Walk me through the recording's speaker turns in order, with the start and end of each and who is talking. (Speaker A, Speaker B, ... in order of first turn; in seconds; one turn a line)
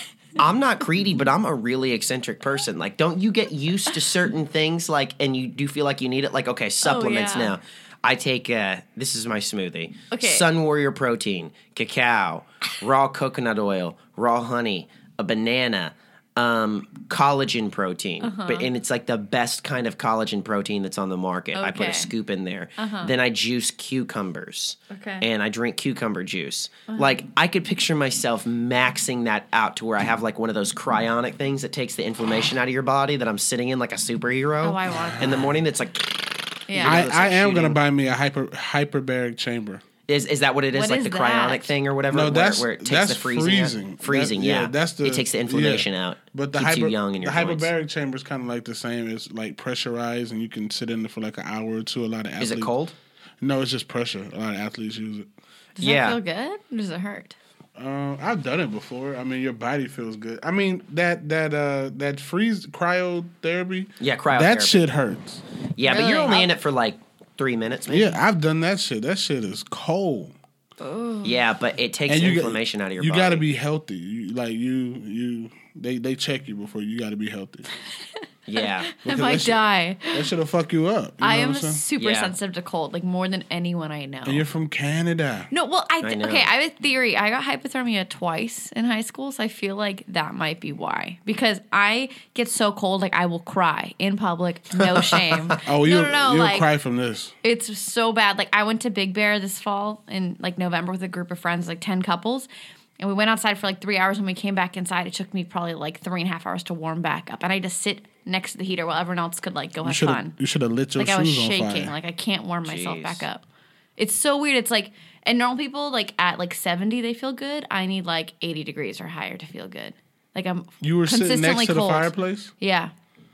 Speaker A: 0.4-37.8
Speaker B: 6.8-7.6
Speaker B: 10.1-10.5
Speaker B: 18.2-18.7
Speaker B: 21.6-22.1
Speaker B: 22.8-23.1
Speaker B: 24.9-25.3
Speaker B: 34.6-35.3
Speaker C: 35.0-35.5
Speaker B: 36.7-37.0
Speaker C: 36.8-39.8
Speaker A: 40.1-47.7
Speaker B: 40.7-41.7
Speaker C: 42.1-52.7
Speaker A: 52.4-53.0
Speaker C: 53.4-55.3
Speaker B: 55.8-57.4
Speaker A: 55.8-56.2
Speaker C: 57.8-65.4
Speaker A: 64.0-64.8
Speaker A: 65.8-68.2
Speaker B: 65.8-66.5
Speaker C: 67.9-70.3
Speaker B: 70.8-71.3
Speaker A: 71.2-73.5
Speaker C: 72.1-77.7
Speaker A: 78.5-78.9
Speaker B: 78.6-80.2
Speaker C: 79.0-81.8
Speaker B: 81.2-84.4
Speaker A: 82.0-82.3
Speaker C: 84.3-85.5
Speaker B: 85.5-96.7
Speaker A: 86.0-86.5
Speaker A: 94.8-95.5
Speaker C: 95.7-97.3
Speaker B: 97.4-102.5
Speaker B: 103.0-110.3
Speaker C: 109.8-111.9
Speaker B: 111.0-113.5
Speaker A: 112.6-113.2
Speaker B: 114.0-122.9
Speaker C: 120.8-122.5